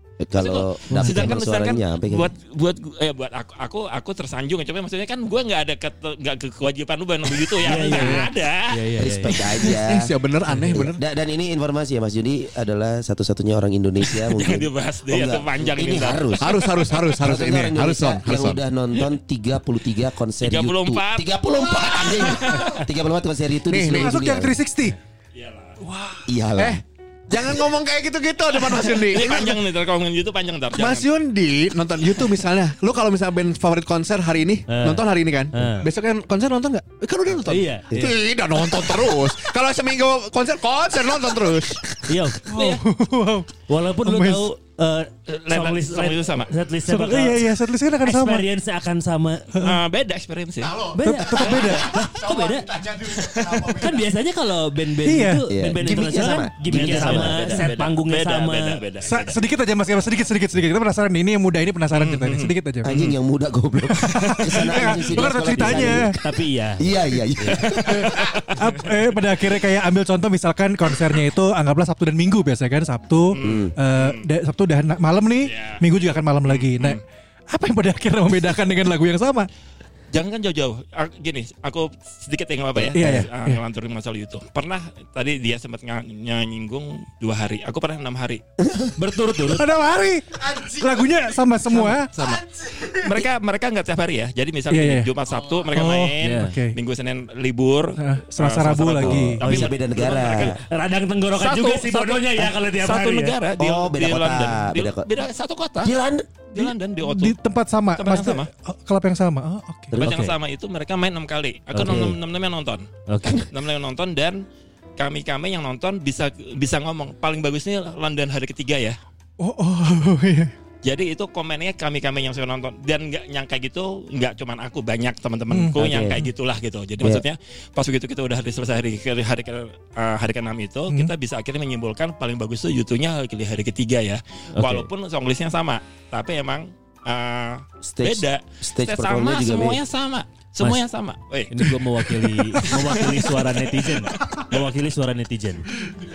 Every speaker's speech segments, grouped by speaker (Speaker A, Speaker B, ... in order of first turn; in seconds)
Speaker A: 0.2-2.3, 9.0-10.1, 10.7-16.5, 17.1-24.6, 26.3-26.8, 55.5-57.4, 62.8-66.2, 66.8-68.1, 73.4-73.8, 82.8-83.2, 88.6-88.9, 99.0-100.6, 103.6-105.1, 105.8-106.5, 109.9-110.4, 111.8-112.2, 125.8-126.2, 137.8-139.8
Speaker B: 0.4-8.8, 14.1-17.0, 20.4-22.9, 25.4-25.8, 28.8-31.1, 42.5-42.8, 45.3-46.5, 49.6-50.9, 53.1-53.7, 56.7-59.4, 61.9-63.1, 64.0-65.0, 67.6-68.7, 73.3-74.2, 75.4-75.8, 76.5-77.0, 80.1-88.4, 91.7-100.6, 101.4-106.0, 106.5-107.4, 108.0-108.5, 110.0-114.4, 115.0-119.0, 120.8-141.8, 142.6-143.6
Speaker C: 7.6-9.6, 10.5-10.8, 34.7-35.9, 37.5-38.0, 42.1-42.7, 43.7-49.5, 50.9-52.7, 53.7-58.8, 65.2-66.8, 89.0-89.6, 96.2-96.5, 99.4-103.3, 111.7-112.0, 113.1-113.5, 134.6-134.9, 141.5-145.7
Speaker D: 7.9-8.3, 9.6-11.0, 16.4-18.6, 23.7-24.2, 26.6-29.6, 30.8-42.1, 50.6-54.1, 90.5-90.8
Speaker E: 23.9-25.0, 25.8-26.2, 42.5-43.5, 44.0-44.5, 46.9-48.5, 51.0-51.9, 55.0-55.5, 59.0-63.0, 64.1-66.2, 67.9-79.5, 82.9-83.6, 89.5-92.1, 94.7-95.1, 95.7-96.8, 98.0-99.4, 107.0-110.0, 119.4-120.5, 125.5-126.2